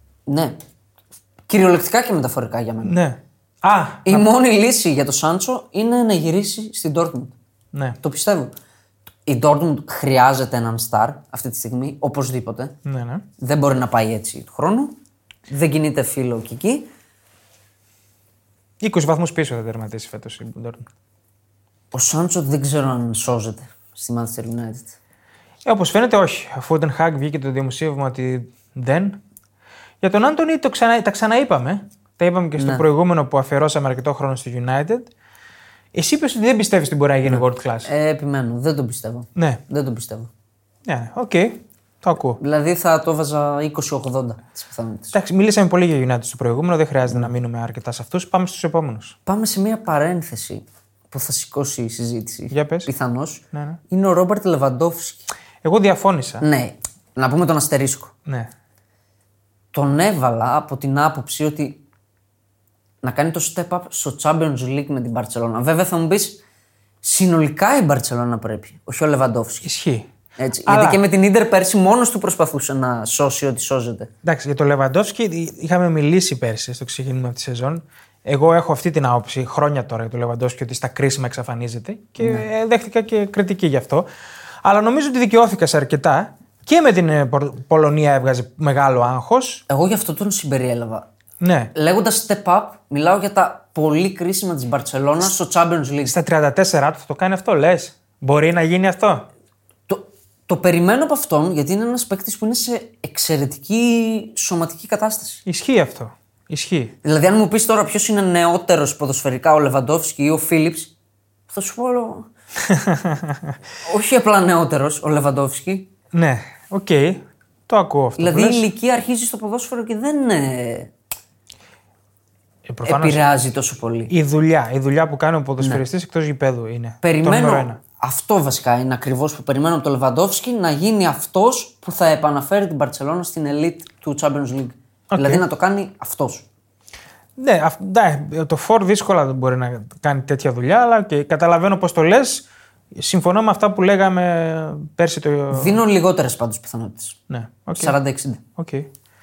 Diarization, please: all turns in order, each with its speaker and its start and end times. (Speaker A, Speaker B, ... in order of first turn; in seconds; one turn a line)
Speaker A: 0.3-0.6
Speaker A: 1.5-3.0
Speaker B: 2.8-4.3
Speaker A: 4.0-7.3
Speaker A: 8.0-8.5
Speaker A: 9.2-12.8
Speaker B: 12.8-13.2
Speaker A: 13.4-14.9
Speaker A: 15.5-16.9
Speaker B: 18.8-20.9
Speaker A: 21.9-24.9
Speaker B: 25.6-29.2
Speaker B: 30.0-35.1
Speaker A: 32.6-32.8
Speaker B: 35.9-37.9
Speaker A: 37.2-40.3
Speaker B: 39.4-39.6
Speaker B: 40.9-42.4
Speaker A: 42.4-45.1
Speaker B: 45.1-49.1
Speaker A: 49.2-55.3
Speaker B: 52.5-52.9
Speaker B: 53.5-53.8
Speaker B: 55.6-56.4
Speaker A: 56.4-58.1
Speaker A: 59.7-61.8
Speaker A: 63.0-66.4
Speaker A: 67.0-69.7
Speaker B: 69.6-70.1
Speaker A: 70.4-74.1
Speaker B: 70.6-71.0
Speaker B: 74.2-84.0
Speaker B: 84.6-89.6
Speaker A: 89.7-91.0
Speaker B: 91.4-91.7
Speaker A: 91.7-96.1
Speaker B: 96.0-99.2
Speaker A: 99.9-105.4
Speaker B: 105.5-106.9
Speaker A: 107.0-110.9
Speaker A: 111.5-112.3
Speaker B: 112.6-113.5
Speaker A: 113.8-115.9
Speaker B: 116.1-118.6
Speaker A: 118.2-120.9
Speaker B: 122.7-123.2
Speaker A: 122.8-124.1
Speaker B: 124.1-127.8
Speaker A: 127.0-136.4
Speaker B: 135.1-135.4
Speaker B: 137.4-145.8
Speaker A: 145.5-147.2
Speaker B: 147.3-148.0
Speaker A: 147.7-148.4
Speaker B: 148.6-148.9